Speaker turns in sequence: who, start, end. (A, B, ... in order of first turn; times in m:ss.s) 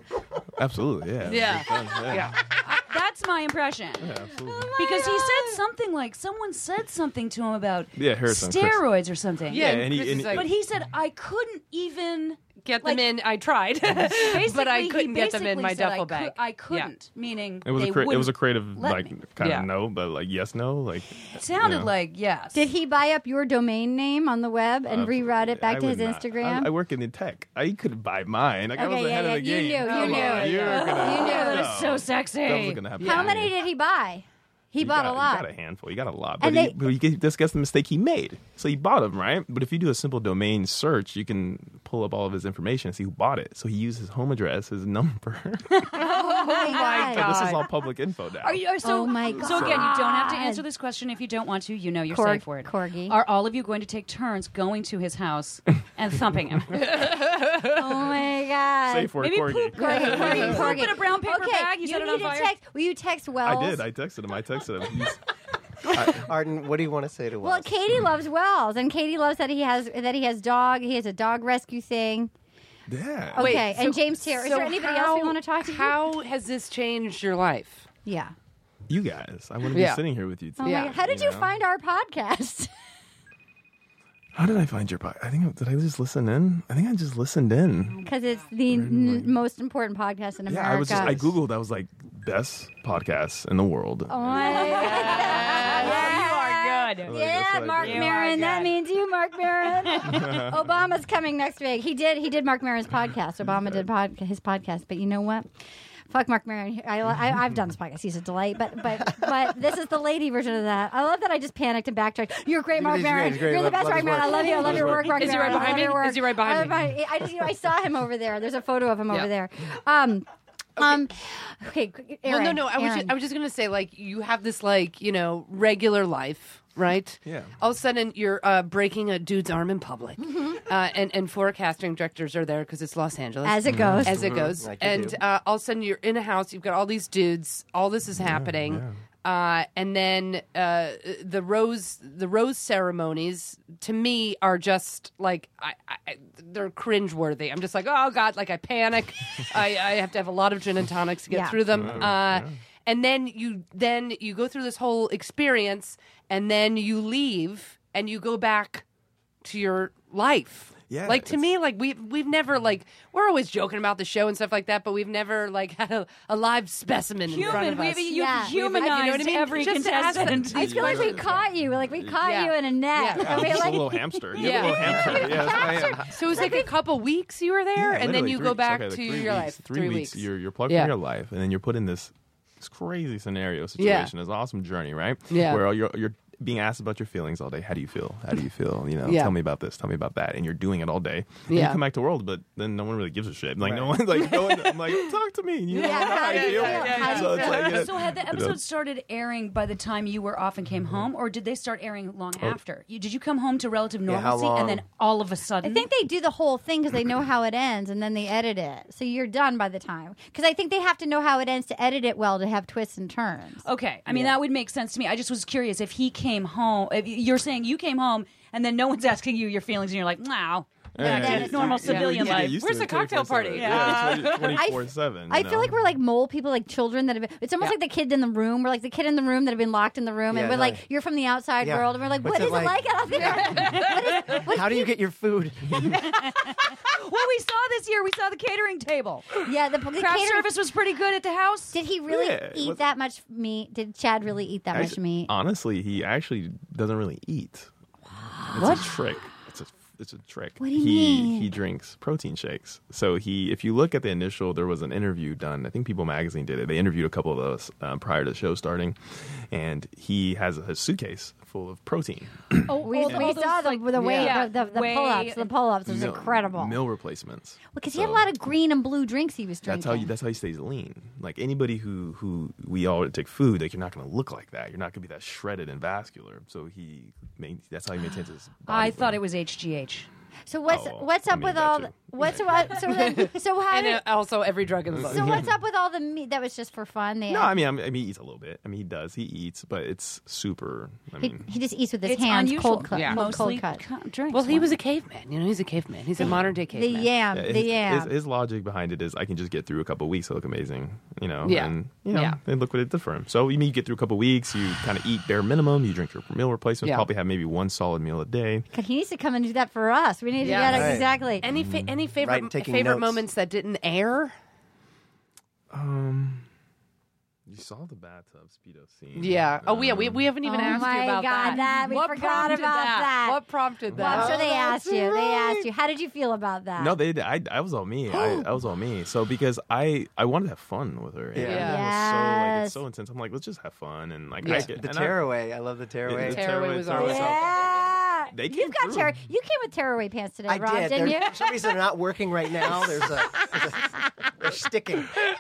0:00.5-0:02.4 A
0:01.2-0:02.4 B
0:02.6-0:04.1 C
0:04.0-0:04.8 A
0:04.5-0:05.6 D
0:04.8-0:13.0 C
0:08.0-0:08.8 A
0:09.5-0:10.5 B
0:09.5-0:10.5 A
0:12.6-0:16.9 B
0:13.8-0:19.2 C
0:17.6-0:21.9 A
0:19.4-0:19.7 B
0:21.3-0:22.6 C
0:22.5-0:26.7 D
0:24.9-0:33.5 A
0:28.8-0:31.8 D
0:29.8-0:30.7 B
0:30.0-0:32.9 C
0:33.0-0:33.4 B
0:33.0-0:35.5 D
0:34.8-0:45.9 A
0:36.4-0:36.8 D
0:46.0-0:47.6 B
0:46.0-0:47.6 D
0:46.8-0:48.7 A
0:48.4-0:57.0 C
0:48.8-0:50.6 D
0:49.3-0:49.9 A
0:52.1-0:53.2 D
0:56.7-0:57.8 B
0:57.6-0:59.2 D
0:58.9-1:00.8 A
0:59.2-1:02.5 C
0:59.8-1:03.8 D
1:03.4-1:05.3 A
1:05.9-1:06.3 A
1:06.0-1:07.7 E
1:07.4-1:12.3 D
1:12.9-1:13.7 A
1:13.3-1:16.0 D
1:13.4-1:17.9 B
1:18.1-1:18.3 D
1:18.9-1:21.6 A
1:19.7-1:20.0 B
1:20.6-1:22.7 D
1:20.6-1:21.0 B
1:24.4-1:28.0 A
1:28.0-1:31.2 D
1:28.7-1:29.3 A
1:30.5-1:36.2 A
1:30.9-1:31.3 E
1:34.1-1:45.5 D
1:34.4-1:37.2 C
1:35.5-1:35.9 B
1:37.0-1:38.6 A
1:37.8-1:38.7 C
1:39.8-1:40.1 C
1:40.0-1:40.7 A
1:46.1-2:00.3 D
1:52.8-1:55.2 E
1:54.4-1:56.9 B
1:54.6-1:55.5 A
2:00.8-2:03.2 D
2:02.2-2:38.8 B
2:07.2-2:07.6 A
2:10.2-2:10.6 D
2:13.4-2:14.2 D
2:13.7-2:14.2 A
2:14.1-2:15.2 E
2:18.2-2:19.0 A
2:31.3-2:31.6 D
2:31.7-2:32.6 A
2:39.4-2:51.2 B
2:40.9-2:41.5 A
2:47.3-2:51.1 C
2:48.1-2:48.6 D
2:50.4-2:52.2 A
2:50.5-2:56.7 D
2:52.2-2:53.7 B
2:53.2-2:56.6 A
2:54.3-3:00.9 B
2:57.8-3:18.6 A
3:03.8-3:04.1 B
3:05.3-3:05.6 B
3:09.0-3:09.3 B
3:11.5-3:11.8 B
3:13.6-3:13.9 E
3:14.1-3:15.1 B
3:15.7-3:17.8 B
3:15.8-3:17.8 D
3:17.0-3:25.9 C
3:24.1-3:24.8 E
3:25.6-3:33.6 D
3:33.6-3:42.6 C
3:34.1-3:34.3 E
3:41.0-3:45.8 A
3:41.0-3:41.9 D
3:41.2-3:44.6 B
3:43.6-3:44.7 C
3:44.5-3:54.9 D
3:50.3-3:50.8 E
3:51.6-3:52.8 E
3:54.3-3:56.1 E
3:56.0-3:59.4 C
3:59.4-4:00.5 D
4:00.0-4:01.8 C
4:01.7-4:05.3 D
4:02.1-4:02.8 A
4:04.7-4:07.7 A
4:08.5-4:08.8 D
4:08.5-4:23.4 A
4:10.6-4:11.6 D
4:22.7-4:25.5 C
4:22.8-4:26.8 D
4:23.9-4:24.4 B
4:25.9-4:28.3 A
4:27.7-4:30.1 D
4:29.6-4:39.2 A
4:38.7-4:40.1 C
4:40.5-4:44.0 D
4:40.7-4:42.7 A
4:42.7-4:45.5 B
4:44.9-4:45.5 A
4:45.0-4:47.5 D
4:47.3-4:51.5 A
4:51.2-4:53.8 D
4:52.0-4:54.8 C
4:52.9-4:53.5 B
4:54.3-4:57.2 B
4:56.2-4:58.1 D
4:56.2-4:56.5 A
4:57.3-5:08.7 A
5:01.4-5:02.4 B
5:06.8-5:07.1 B
5:08.7-5:11.5 D
5:10.4-5:14.4 B
5:10.5-5:11.1 E
5:11.5-5:12.0 A
5:12.2-5:13.2 E
5:15.7-5:16.5 A
5:17.5-5:20.3 A
5:19.2-5:24.8 B
5:20.4-5:27.0 D
5:23.9-5:24.4 A
5:24.0-5:24.6 E
5:26.8-5:35.2 A
5:28.1-5:28.4 D
5:31.3-5:31.7 E
5:31.4-5:31.8 B
5:31.6-5:32.8 D
5:34.4-5:34.7 B
5:34.4-5:36.5 E
5:36.1-5:39.2 A
5:36.3-5:37.5 B
5:37.0-5:41.4 D
5:40.5-5:45.2 E